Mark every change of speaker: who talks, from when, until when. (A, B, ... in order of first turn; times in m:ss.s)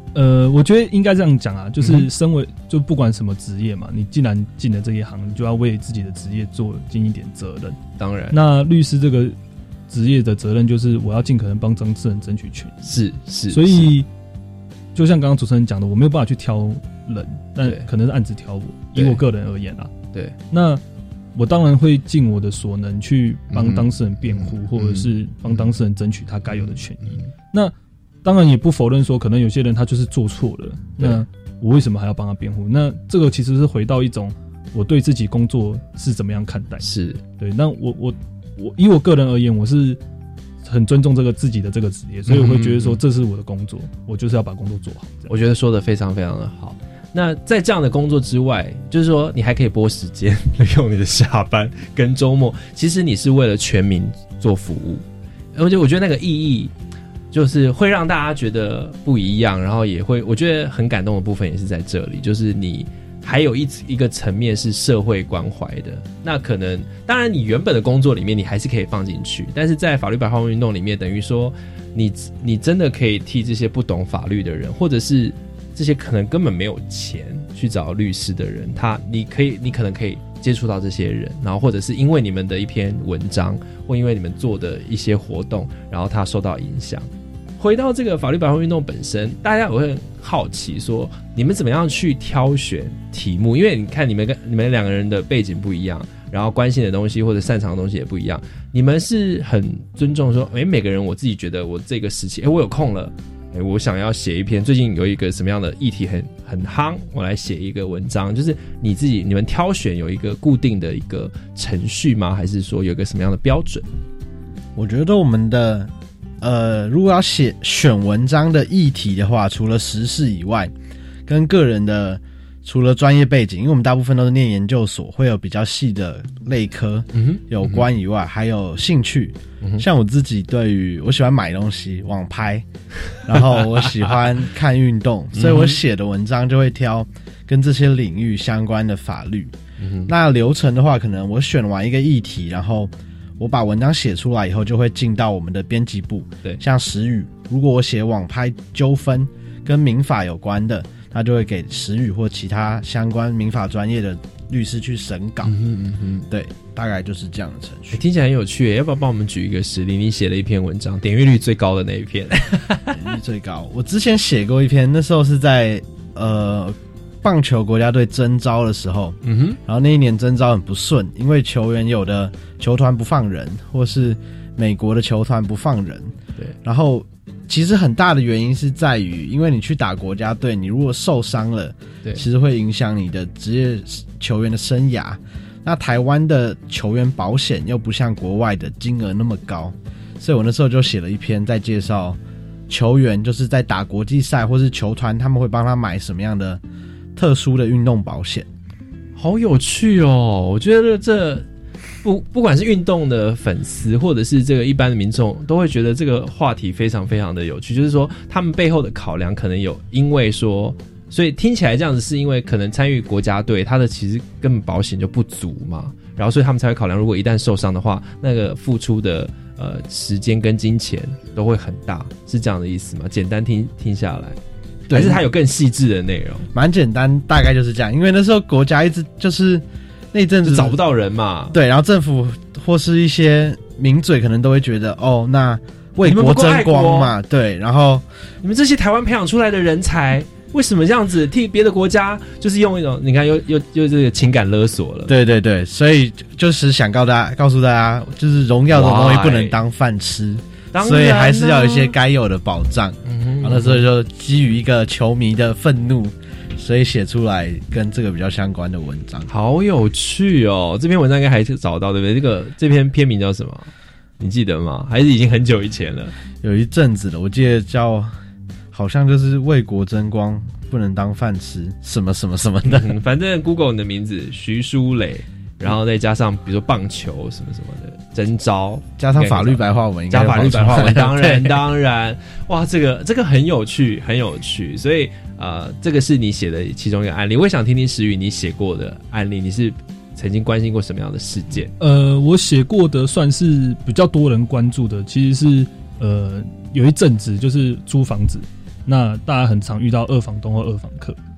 0:00.2-0:07.8 A
0:01.8-0:02.1 B
0:08.0-0:08.4 B
0:08.3-0:09.4 A
0:09.9-0:12.8 A
0:12.8-0:13.9 B
0:13.5-0:14.1 A
0:15.0-0:19.9 A
0:19.0-0:19.2 B
0:20.5-0:20.8 A
0:21.4-0:36.9 A
0:23.5-0:25.6 B
0:26.6-0:27.2 B
0:31.0-0:31.2 B
0:36.8-0:37.2 B
0:37.4-0:40.0 A
0:40.6-0:45.3 A
0:42.3-0:43.0 B
0:45.3-0:55.0 B
0:55.6-0:56.7 B
0:57.3-1:27.1 B
1:27.6-1:53.9 B
1:54.8-2:00.7 C
2:01.3-2:12.7 C
2:07.2-2:07.8 B
2:13.2-2:19.5 C
2:13.6-2:13.9 B
2:15.4-2:15.8 B
2:19.8-2:20.1 B
2:20.1-2:35.6 C
2:35.4-2:36.3 B
2:36.3-2:38.0 C
2:37.9-2:43.0 B
2:42.9-3:12.2 C
2:49.2-2:49.6 B
3:12.7-3:16.6 C
3:17.2-3:18.5 C
3:19.2-3:21.4 B
3:22.0-3:44.4 B
3:44.9-3:45.2 C
3:44.9-3:46.5 B
3:46.5-3:50.8 C
3:50.4-3:51.6 B
3:51.5-3:58.0 C
3:56.0-3:57.1 B
3:58.4-4:05.1 B
4:05.1-4:19.3 C
4:08.7-4:09.6 B
4:10.7-4:12.0 B
4:13.1-4:13.8 B
4:19.3-4:26.1 B
4:26.4-4:28.1 C
4:28.7-4:32.9 C
4:32.7-4:51.7 B
4:39.0-4:41.6 C
4:51.8-5:01.2 A